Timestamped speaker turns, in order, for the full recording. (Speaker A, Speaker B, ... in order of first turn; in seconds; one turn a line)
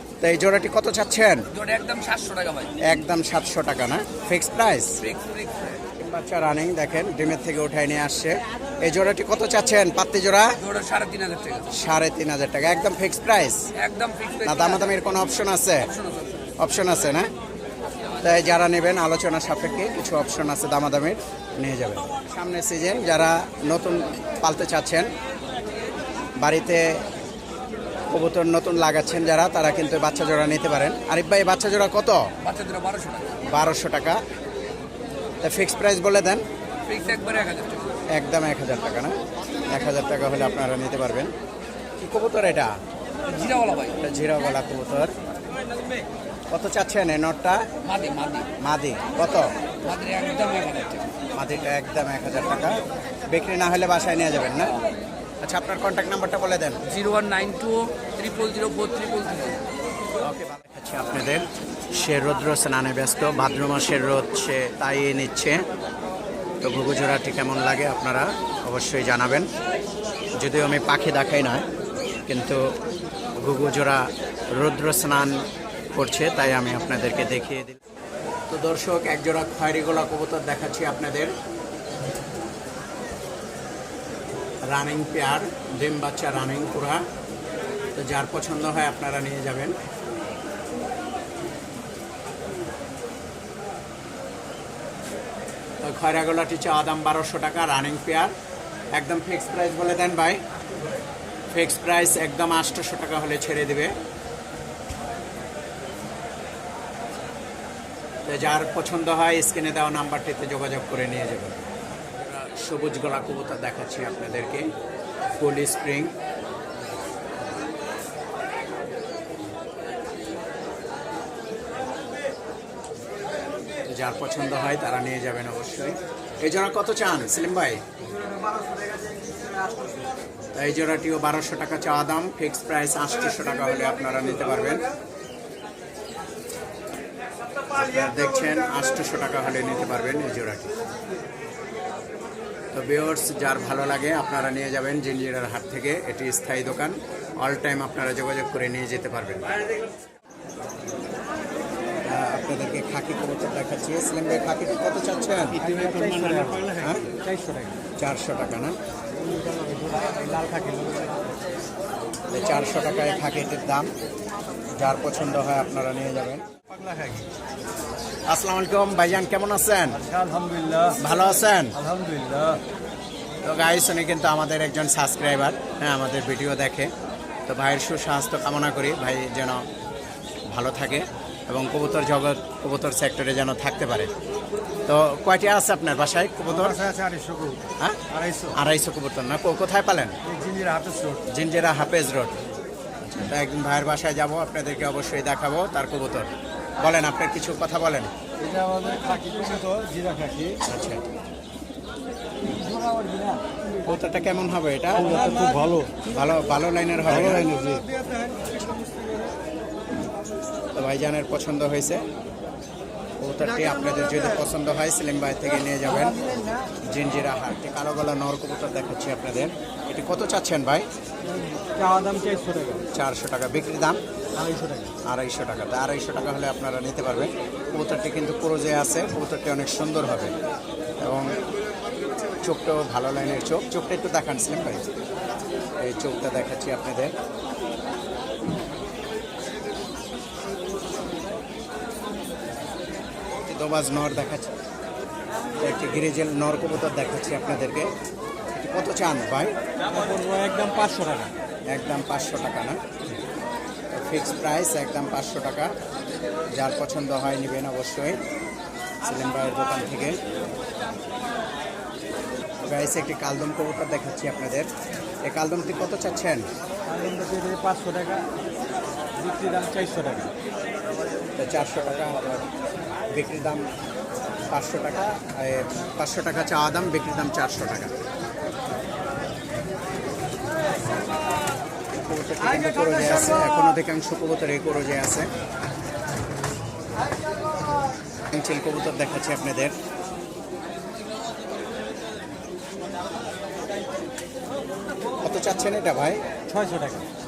Speaker A: 0.2-1.4
Speaker B: 1.5-2.7
Speaker A: 2.8-5.0
Speaker B: 5.0-5.8
Speaker A: 6.0-10.6
Speaker B: 10.6-11.7
Speaker A: 11.7-13.7
Speaker B: 13.7-15.0
Speaker A: 14.4-15.9
Speaker B: 15.9-16.4
Speaker A: 16.6-17.3
Speaker A: 18.2-25.1
Speaker A: 26.4-27.0
Speaker A: 28.1-32.3
Speaker B: 32.4-33.4
Speaker A: 33.5-34.2
Speaker A: 35.4-36.4
Speaker B: 36.9-38.0
Speaker A: 38.1-41.3
Speaker A: 42.0-42.8
Speaker B: 43.3-44.0
Speaker A: 44.0-45.1
Speaker A: 46.5-47.7
Speaker B: 47.8-48.5
Speaker A: 48.6-49.5
Speaker B: 49.8-51.1
Speaker A: 51.3-54.8
Speaker A: 55.4-56.8
Speaker B: 56.8-59.6
Speaker A: 60.2-65.6
Speaker A: 66.6-69.5
Speaker A: 70.4-71.7
Speaker A: 72.3-72.7
Speaker A: 73.4-75.4
Speaker A: 76.0-77.8
Speaker A: 78.5-81.3
Speaker A: 84.6-87.0
Speaker A: 88.0-89.8
Speaker A: 95.8-98.3
Speaker A: 98.9-100.4
Speaker A: 101.5-103.9
Speaker A: 108.3-111.6
Speaker A: 112.2-114.7
Speaker A: 115.4-116.1
Speaker A: 123.8-127.8
Speaker A: 130.5-134.8
Speaker A: 137.7-140.7
Speaker A: 142.7-149.5
Speaker A: 152.1-155.6
Speaker C: 155.6-157.8
Speaker A: 156.7-157.1
Speaker A: 158.0-158.7
Speaker C: 159.2-161.3
Speaker A: 162.3-163.9
Speaker A: 164.7-166.4
Speaker C: 166.7-167.3
Speaker A: 168.3-170.0
Speaker C: 170.0-171.0
Speaker A: 171.0-171.8
Speaker C: 171.8-172.6
Speaker A: 173.4-176.9
Speaker A: 177.5-179.6
Speaker A: 180.5-184.1
Speaker A: 184.9-186.8
Speaker C: 186.6-188.5
Speaker A: 187.8-190.2
Speaker C: 190.2-191.2
Speaker A: 191.3-192.3
Speaker A: 193.1-198.1
Speaker C: 198.4-200.6
Speaker A: 200.6-201.1
Speaker C: 202.6-203.4
Speaker A: 203.8-205.4
Speaker C: 205.0-205.9
Speaker A: 206.0-207.6
Speaker C: 207.3-207.8
Speaker A: 210.7-212.0
Speaker A: 213.2-216.2
Speaker A: 216.9-220.9
Speaker C: 221.4-222.8
Speaker A: 222.9-224.0
Speaker C: 224.3-224.9
Speaker A: 225.0-230.3
Speaker A: 231.0-231.4
Speaker A: 232.4-234.9
Speaker A: 235.8-237.1
Speaker A: 243.5-244.5
Speaker A: 245.6-247.9
Speaker A: 248.5-249.5
Speaker C: 249.9-251.3
Speaker A: 251.7-252.8
Speaker A: 253.9-255.7
Speaker A: 256.5-258.2
Speaker A: 259.0-260.2
Speaker A: 262.6-264.7
Speaker A: 265.2-266.5
Speaker C: 266.9-268.3
Speaker C: 269.1-270.3
Speaker A: 271.4-272.5
Speaker A: 273.1-273.7
Speaker A: 274.5-277.9
Speaker A: 281.9-285.3
Speaker A: 288.3-289.7
Speaker A: 295.2-296.2
Speaker C: 296.5-297.1